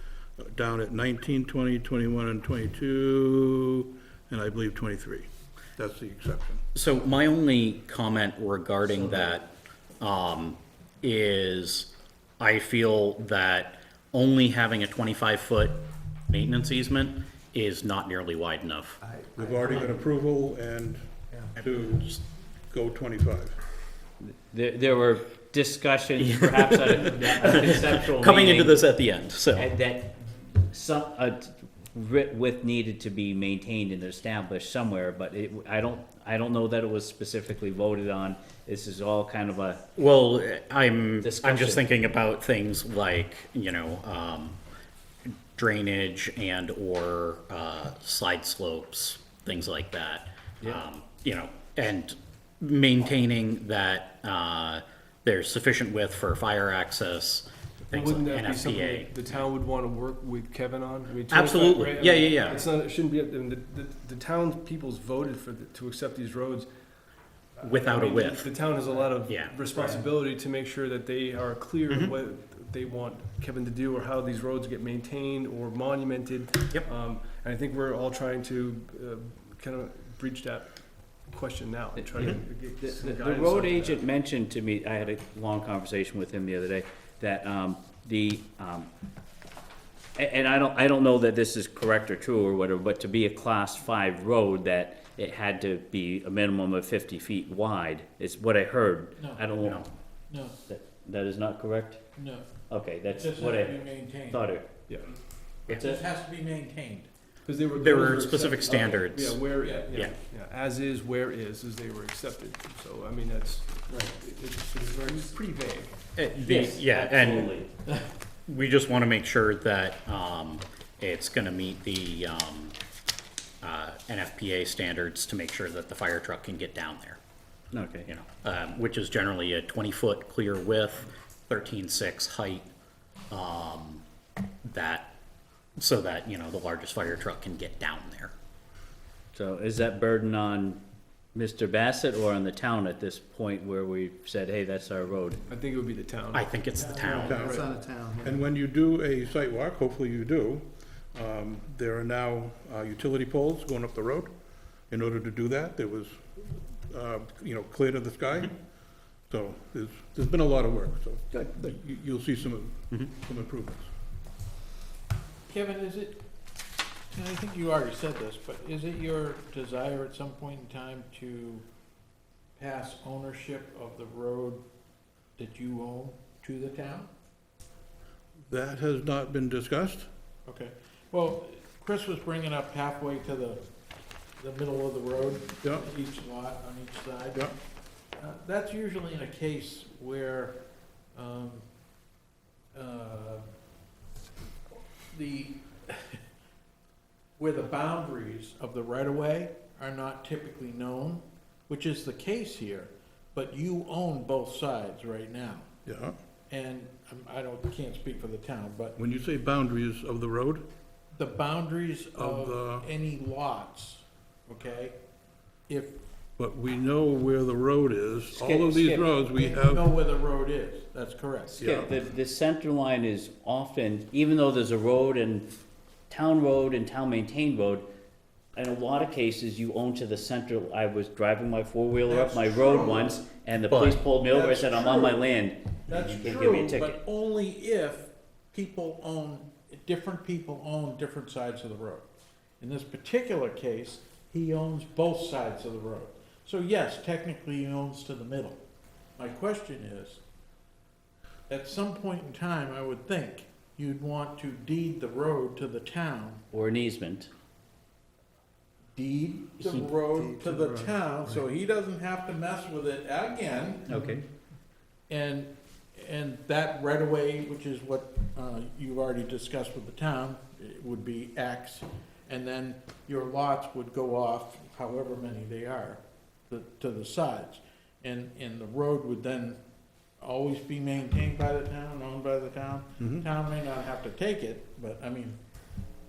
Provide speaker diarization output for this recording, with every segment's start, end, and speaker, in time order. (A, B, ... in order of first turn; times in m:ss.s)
0:00.4-0:06.6 A
0:06.7-0:09.5 B
0:10.0-0:19.0 B
0:19.2-0:19.6 C
0:19.3-0:23.6 A
0:24.2-0:28.9 D
0:26.2-0:29.7 B
0:29.5-0:39.8 D
0:40.0-0:44.6 B
0:41.2-0:41.8 D
0:45.5-0:59.1 B
0:57.9-1:06.7 E
1:01.3-1:02.6 B
1:07.6-1:24.0 E
1:07.6-1:08.5 B
1:09.2-1:09.9 B
1:11.9-1:12.1 B
1:22.0-1:28.9 D
1:30.2-1:39.8 D
1:39.2-1:39.4 F
1:39.6-1:39.9 B
1:40.3-1:40.6 F
1:40.7-1:42.0 D
1:42.2-1:42.5 F
1:42.7-1:44.7 D
1:43.2-1:44.5 F
1:45.7-1:47.1 F
1:45.7-1:46.0 D
1:47.4-1:56.0 E
1:47.8-1:49.4 B
1:49.6-1:49.9 F
1:56.2-1:57.5 B
1:56.4-1:57.7 D
1:58.5-2:02.7 B
2:03.6-2:07.2 B
2:07.7-2:08.1 D
2:08.1-2:12.7 B
2:13.3-2:14.0 B
2:14.6-2:15.1 B
2:15.8-2:18.3 B
2:19.3-2:20.8 D
2:21.3-2:25.4 D
2:25.5-2:27.6 E
2:26.3-2:27.5 B
2:27.0-2:28.3 C
2:27.1-2:27.7 A
2:28.2-2:34.3 A
2:34.9-2:38.6 A
2:39.3-2:43.9 A
2:45.5-2:46.2 F
2:47.1-2:51.6 F
2:52.6-2:54.6 F
2:55.4-2:57.1 F
2:58.5-3:00.1 A
3:00.4-3:03.6 F
3:04.4-3:07.4 F
3:08.2-3:10.6 F
3:11.1-3:11.6 F
3:12.7-3:13.4 F
3:14.7-3:16.2 F
3:17.4-3:25.7 F
3:25.8-3:26.2 A
3:26.5-3:29.0 F
3:29.0-3:30.6 A
3:31.1-3:35.0 F
3:32.2-3:32.8 A
3:35.7-3:36.0 F
3:36.4-3:39.9 A
3:38.4-3:39.0 D
3:38.6-3:41.6 F
3:41.5-3:45.4 D
3:41.6-3:41.9 A
3:46.1-3:47.8 D
3:48.6-3:57.0 D
3:52.1-3:53.2 F
3:53.7-3:54.0 B
3:54.2-3:55.2 F
3:55.9-4:02.1 F
4:02.6-4:08.6 F
4:09.2-4:10.2 F
4:11.5-4:16.4 F
4:16.5-4:17.3 D
4:18.9-4:23.9 F
4:20.2-4:21.3 C
4:23.9-4:24.2 D
4:25.1-4:39.6 F
4:40.2-4:45.4 F
4:43.0-4:43.2 A